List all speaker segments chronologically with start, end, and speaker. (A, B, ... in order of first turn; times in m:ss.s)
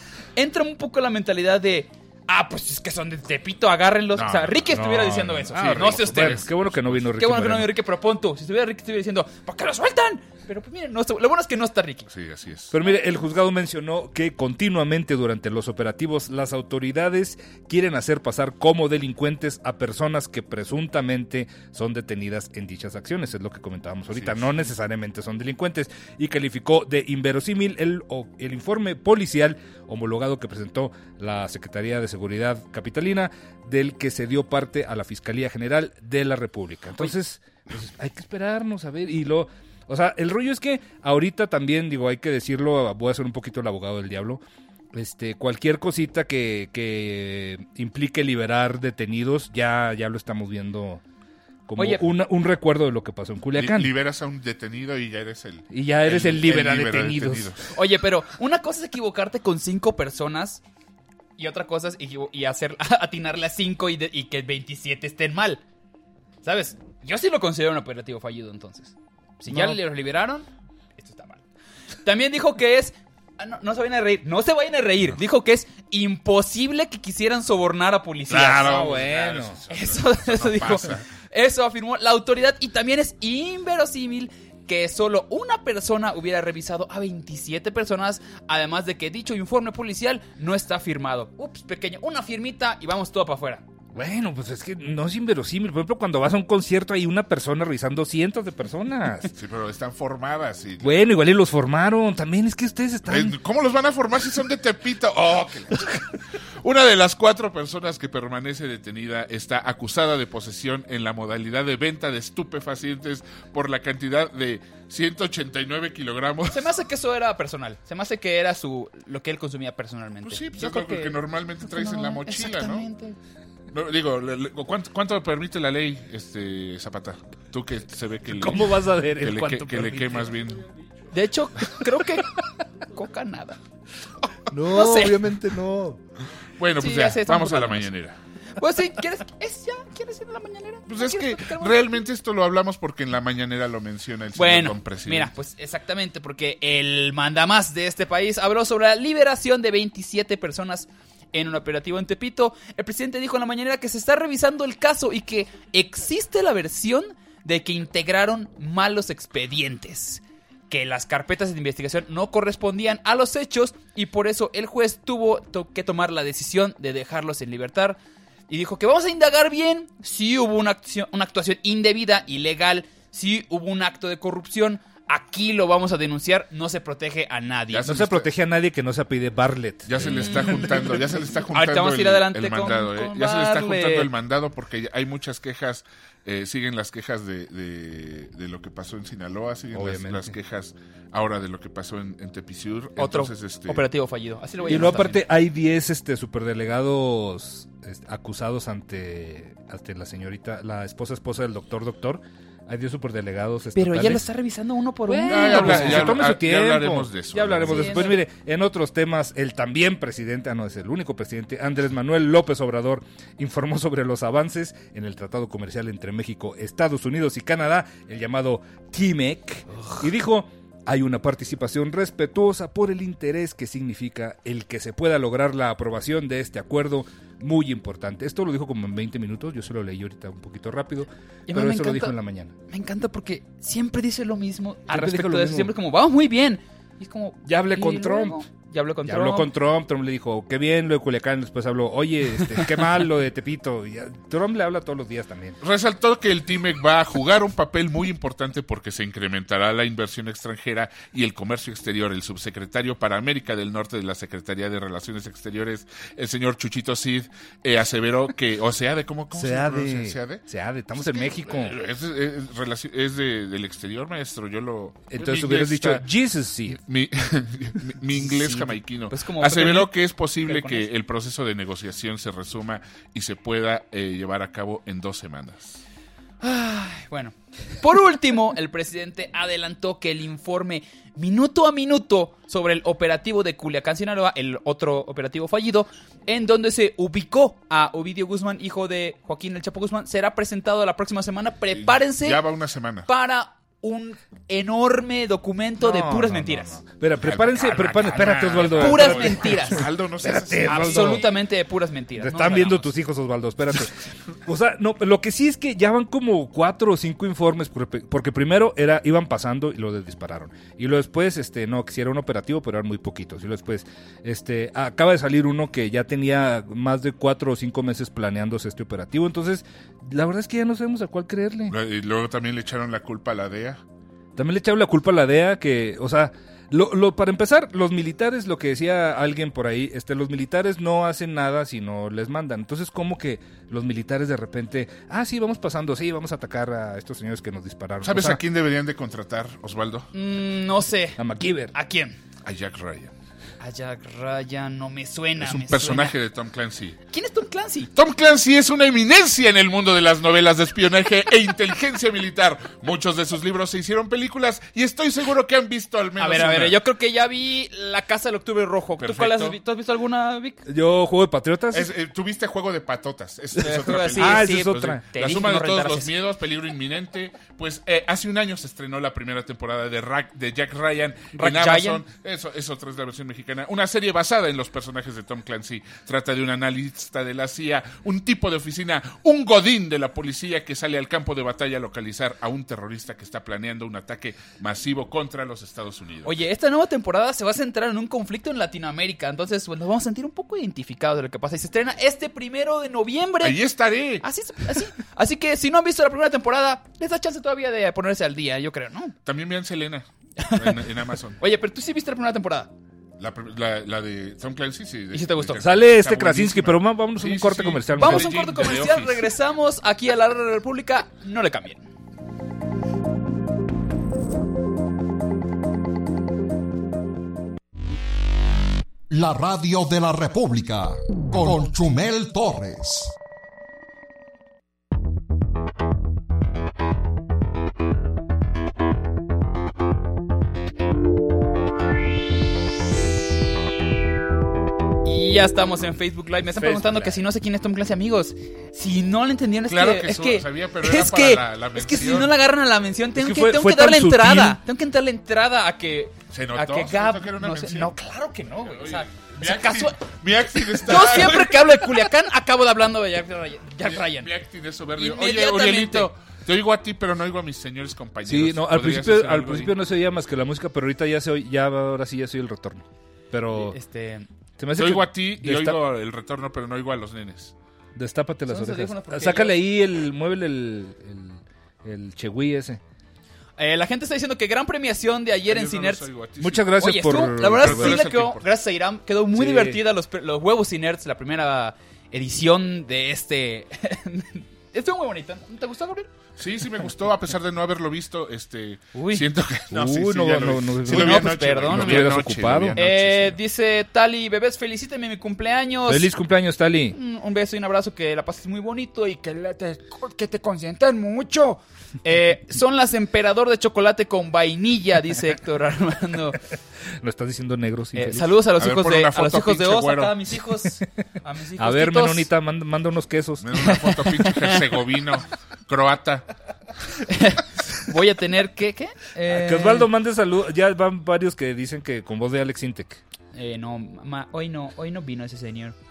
0:00.4-0:06.5 A
0:04.1-0:07.1 B
0:04.7-0:07.7 C
0:07.2-0:12.1 A
0:12.1-0:12.7 B
0:12.7-0:44.4 C
0:24.1-0:24.6 B
0:44.9-0:51.0 C
0:51.7-0:53.9 C
0:51.8-0:52.0 A
0:53.5-0:57.7 B
0:55.7-0:57.5 C
0:57.7-1:00.6 A
1:01.4-1:05.6 A
1:06.4-1:11.4 A
1:09.5-1:09.8 C
1:12.0-1:18.7 A
1:18.3-1:21.0 B
1:18.5-1:19.6 C
1:19.7-1:33.6 A
1:33.9-1:39.3 C
1:39.3-1:41.0 B
1:40.8-1:43.4 C
1:43.1-1:46.1 B
1:46.6-1:56.7 B
1:56.5-2:03.2 A
2:00.2-2:02.9 B
2:03.7-2:10.6 B
2:08.3-2:10.3 C
2:11.1-2:12.4 A
2:12.9-2:13.6 A
2:14.5-2:16.0 C
2:14.7-2:15.2 A
2:16.6-2:18.2 B
2:16.8-2:17.9 A
2:18.6-2:22.0 A
2:20.9-2:25.3 B
2:24.4-2:58.0 A
2:57.7-2:58.3 B
2:57.8-3:00.6 C
2:59.9-3:13.9 B
3:00.2-3:00.9 A
3:01.5-3:04.1 A
3:09.7-3:10.4 C
3:13.0-3:15.2 A
3:14.7-3:24.2 C
3:23.8-3:26.2 A
3:25.1-3:52.6 C
3:25.3-3:28.1 B
3:27.5-3:28.2 A
3:51.5-3:52.2 A
3:52.7-3:59.5 A
3:54.9-3:55.7 C
3:57.4-3:58.4 C
3:59.1-4:05.6 C
4:05.6-4:20.4 B
4:19.3-4:21.8 C
4:21.0-4:26.1 B
4:25.1-4:26.8 C
4:26.9-4:35.8 B
4:28.2-4:29.9 A
4:30.4-4:30.9 A
4:36.4-4:52.4 A
4:51.7-4:53.1 B
4:53.1-4:56.8 A
4:55.8-5:01.3 C
4:57.2-5:01.3 B
4:58.7-4:59.9 A
5:00.6-5:02.9 A
5:02.2-5:21.8 C
5:21.7-5:23.8 B
5:24.4-5:38.4 C
5:38.0-5:40.1 B
5:40.1-5:41.2 A
5:41.2-5:41.7 C
5:41.7-5:42.2 A
5:42.5-5:43.1 B
5:43.6-5:46.1 A
5:45.4-5:47.0 B
5:47.1-5:47.9 A
5:48.0-5:56.8 B
5:56.2-6:00.6 A
5:59.0-5:59.6 B
6:00.7-6:01.9 C
6:01.7-6:26.3 B
6:03.6-6:06.1 A
6:04.1-6:05.0 C
6:11.4-6:12.0 A
6:26.2-6:33.6 A
6:33.4-6:34.2 B
6:34.2-6:39.2 A
6:39.2-6:41.4 B
6:40.4-6:40.8 A
6:41.4-6:42.7 A
6:43.2-6:49.3 B
6:45.1-6:45.6 A
6:45.6-6:48.4 C
6:48.0-6:51.9 A
6:59.1-7:03.1 D
7:15.0-7:30.0 A
7:16.6-7:17.2 C
7:19.7-7:22.4 B
7:23.2-7:24.6 C
7:26.3-7:27.9 B
7:28.6-7:32.1 B
7:30.8-7:34.3 A
7:33.8-7:39.8 B
7:35.0-7:36.1 A
7:38.3-7:43.8 C
7:43.5-7:44.3 A
7:44.6-7:45.8 C
7:44.8-7:47.5 B
7:48.0-7:52.8 C
7:48.5-7:49.6 A
7:53.6-7:56.1 A
7:55.5-7:56.7 B
7:56.4-7:58.1 C
7:56.8-8:06.1 A
7:57.4-7:58.5 B
7:59.4-7:59.8 C
8:06.4-8:13.4 B
8:09.0-8:09.2 A
8:09.7-8:12.8 C
8:10.9-8:12.1 A
8:12.8-8:16.1 A
8:15.9-8:17.0 C
8:16.9-8:26.4 A
8:27.0-8:28.3 C
8:28.0-8:32.3 A
8:28.6-8:30.2 B
8:31.6-8:33.6 C
8:33.4-8:36.2 B
8:33.6-8:34.6 A
8:37.0-8:39.9 A
8:39.3-8:43.0 C
8:43.3-8:45.8 A